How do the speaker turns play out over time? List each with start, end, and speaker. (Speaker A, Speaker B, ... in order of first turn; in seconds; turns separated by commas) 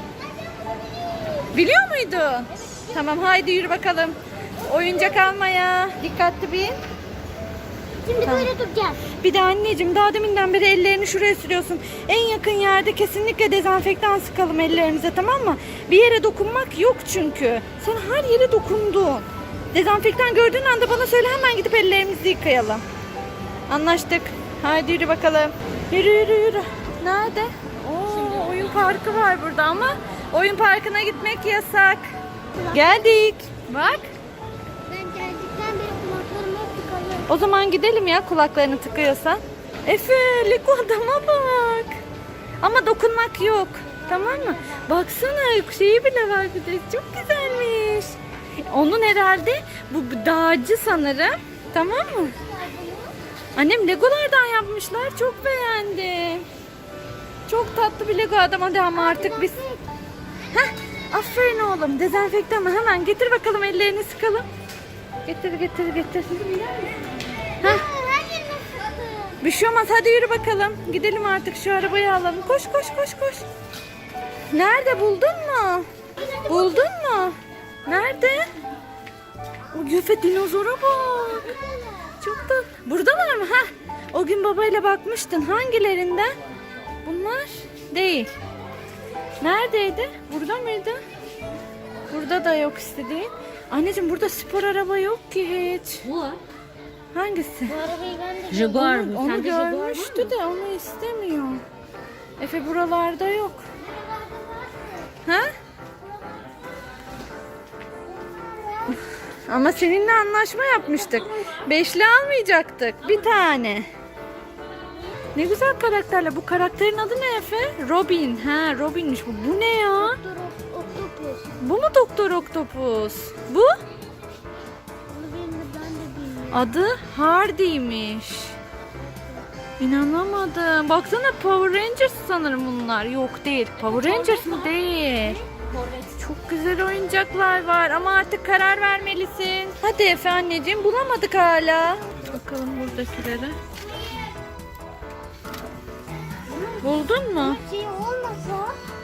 Speaker A: 0.2-1.5, Speaker B: 1.5-6.8, Speaker A: 4.7-5.2, Speaker A: 8.0-9.0, Speaker B: 8.2-8.5, Speaker B: 9.2-22.8, Speaker B: 23.7-32.1, Speaker A: 32.5-33.2, Speaker B: 32.7-34.1, Speaker A: 34.9-37.3, Speaker B: 37.3-41.9, Speaker B: 42.6-48.2, Speaker A: 43.9-44.9, Speaker B: 48.7-52.4, Speaker A: 52.3-53.2, Speaker B: 53.6-56.5, Speaker B: 57.5-59.6, Speaker A: 58.9-59.8, Speaker B: 60.5-64.5, Speaker B: 65.3-67.0, Speaker A: 67.6-69.4, Speaker B: 69.4-73.5, Speaker B: 74.5-75.9, Speaker A: 76.2-76.9, Speaker B: 76.5-78.5, Speaker B: 79.7-81.6, Speaker A: 81.4-82.2, Speaker B: 82.2-86.3, Speaker B: 87.0-88.3, Speaker B: 89.4-91.0, Speaker B: 92.1-96.1, Speaker C: 96.1-96.4, Speaker B: 97.2-97.8, Speaker A: 97.7-99.1, Speaker C: 98.5-100.3, Speaker B: 98.7-101.6, Speaker B: 102.4-103.7, Speaker A: 103.8-105.2, Speaker B: 105.2-105.5, Speaker A: 106.0-106.8, Speaker A: 108.0-109.0, Speaker B: 108.9-113.9, Speaker B: 115.3-120.2, Speaker A: 120.0-121.5, Speaker B: 121.6-123.8, Speaker A: 125.1-126.8, Speaker B: 126.5-128.6, Speaker A: 129.1-129.4, Speaker B: 129.8-135.4, Speaker A: 134.0-134.6, Speaker C: 135.6-136.0, Speaker B: 136.2-143.6, Speaker A: 146.5-148.8, Speaker B: 146.8-147.6